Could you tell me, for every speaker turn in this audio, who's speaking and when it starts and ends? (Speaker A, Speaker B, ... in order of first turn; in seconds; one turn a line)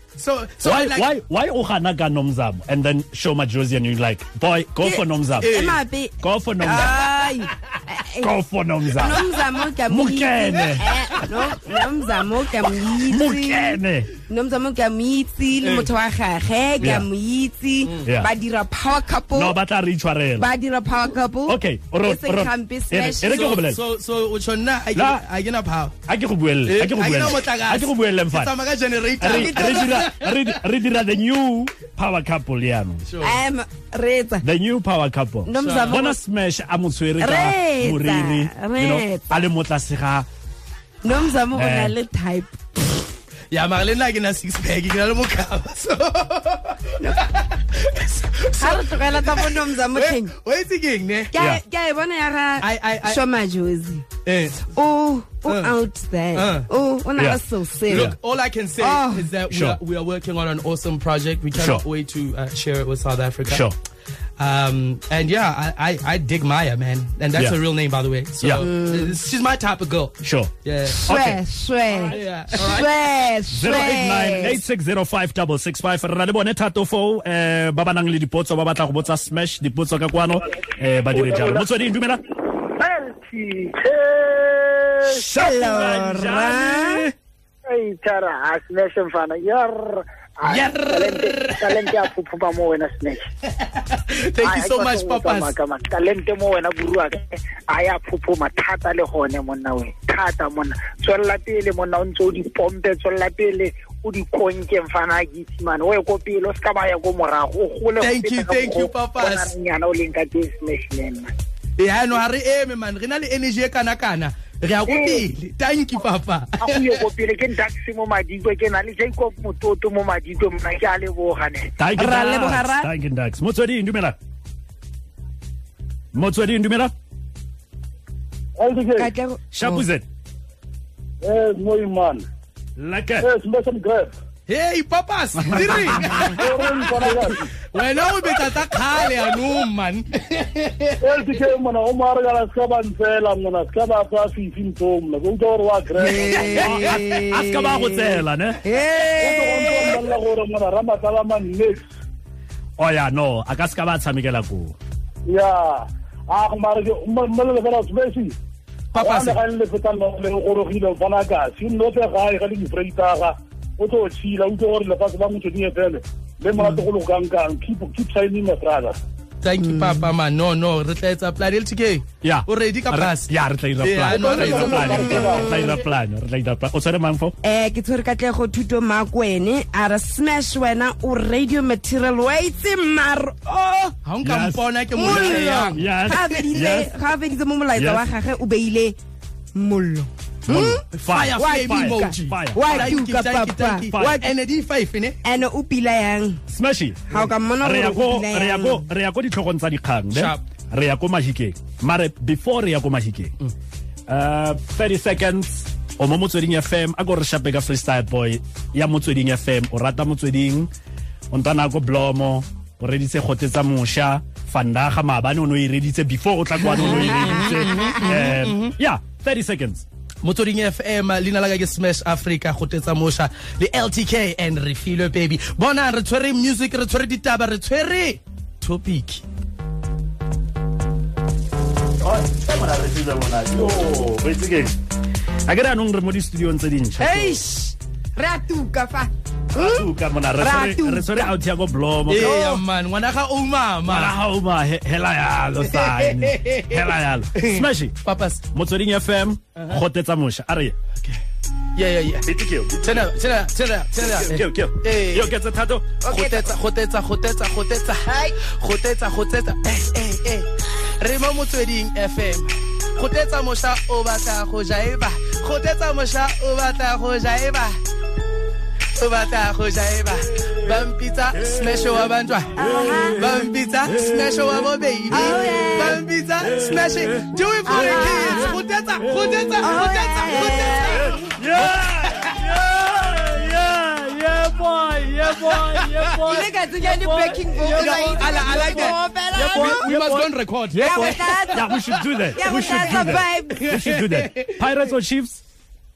Speaker A: 0.2-1.1
Speaker B: 0.6-5.5
Speaker C: 4.8-8.3
Speaker A: 5.4-5.8
Speaker B: 6.2-7.0
Speaker B: 8.2-9.2
Speaker C: 8.9-19.6
Speaker B: 9.9-10.9
Speaker B: 13.1-14.1
Speaker A: 15.6-15.9
Speaker B: 16.8-17.1
Speaker B: 19.4-20.5
Speaker C: 20.4-23.6
Speaker B: 21.5-23.8
Speaker A: 23.2-26.0
Speaker B: 24.9-25.2
Speaker B: 26.1-28.6
Speaker A: 26.7-30.5
Speaker B: 29.2-33.0
Speaker C: 29.3-30.1
Speaker A: 33.1-33.4
Speaker C: 33.2-34.5
Speaker B: 34.4-40.3
Speaker C: 35.5-36.2
Speaker A: 35.6-36.0
Speaker C: 37.2-39.4
Speaker C: 41.0-42.6
Speaker B: 41.5-42.0
Speaker A: 43.5-51.3
Speaker C: 47.0-47.2
Speaker C: 48.6-50.3
Speaker C: 51.3-54.1
Speaker B: 51.4-51.6
Speaker A: 52.6-53.2
Speaker A: 54.2-54.7
Speaker C: 54.6-58.1
Speaker A: 55.5-55.7
Speaker A: 56.4-56.7
Speaker B: 57.2-58.2
Speaker A: 57.9-63.7
Speaker C: 58.8-59.3
Speaker B: 59.5-59.8
Speaker B: 61.5-61.8
Speaker B: 63.5-63.8
Speaker A: 64.4-71.1
Speaker C: 68.6-69.2
Speaker B: 70.2-70.5
Speaker C: 71.0-74.6
Speaker B: 71.0-71.4
Speaker A: 72.0-72.9
Speaker B: 73.5-82.2
Speaker D: 81.2-81.6
Speaker D: 82.5-85.3
Speaker B: 85.0-87.1
Speaker C: 85.4-87.0
Speaker D: 87.7-93.2
Speaker A: 90.4-91.9
Speaker A: 93.8-95.5
Speaker D: 94.4-111.3
Speaker A: 108.0-109.5
Speaker A: 111.8-117.0
Speaker D: 114.9-115.2
Speaker D: 116.6-121.7
Speaker B: 121.8-124.2
Speaker C: 122.0-122.9
Speaker B: 126.1-126.9
Speaker E: 128.6-129.1
Speaker C: 128.9-129.9
Speaker B: 129.5-130.1
Speaker E: 131.2-132.2
Speaker B: 132.8-133.3
Speaker E: 133.2-134.1
Speaker A: 134.5-141.0
Speaker B: 135.5-136.4
Speaker E: 136.4-137.4
Speaker E: 141.0-146.9
Speaker C: 146.0-150.0
Speaker A: 146.2-147.0
Speaker B: 146.8-148.6
Speaker E: 149.2-151.9
Speaker B: 152.8-154.8
Speaker E: 155.3-158.3
Speaker A: 158.9-159.4
Speaker E: 158.9-168.9
Speaker A: 169.4-175.2
Speaker C: 169.6-170.1
Speaker B: 172.2-177.3
Speaker E: 174.1-175.6
Speaker C: 174.8-175.8
Speaker C: 177.4-184.0
Speaker A: 184.1-186.7
Speaker B: 184.2-186.9
Speaker C: 184.9-189.0
Speaker B: 187.8-188.1
Speaker C: 189.5-190.8
Speaker B: 190.5-193.0
Speaker A: 190.5-195.2
Speaker C: 191.4-194.3
Speaker B: 193.9-194.2
Speaker C: 195.2-196.4
Speaker B: 196.5-203.3
Speaker C: 197.1-198.9
Speaker A: 200.1-200.4
Speaker B: 204.1-210.7
Speaker B: 211.3-219.8
Speaker A: 216.7-218.7
Speaker C: 216.8-218.1
Speaker A: 220.2-229.2
Speaker B: 232.0-234.8
Speaker B: 235.5-237.4
Speaker C: 237.0-239.9
Speaker B: 239.6-242.4
Speaker C: 240.4-241.3
Speaker A: 242.1-244.2
Speaker C: 242.1-242.6
Speaker B: 243.9-247.9
Speaker A: 245.6-248.4
Speaker B: 248.5-250.8
Speaker A: 249.6-249.8
Speaker A: 251.8-252.3
Speaker B: 252.2-253.1
Speaker A: 252.8-255.3
Speaker B: 254.1-256.0
Speaker C: 256.0-256.5
Speaker A: 256.0-267.8
Speaker C: 258.1-258.4
Speaker A: 268.9-272.6
Speaker B: 270.4-270.8
Speaker B: 271.4-295.4
Speaker C: 272.6-273.4
Speaker A: 273.2-282.4
Speaker C: 275.1-276.0
Speaker C: 277.7-278.6
Speaker C: 279.6-281.3
Speaker A: 285.5-286.2
Speaker C: 286.2-289.9
Speaker A: 287.7-289.0
Speaker A: 289.5-294.6
Speaker C: 290.8-291.8
Speaker C: 292.3-293.8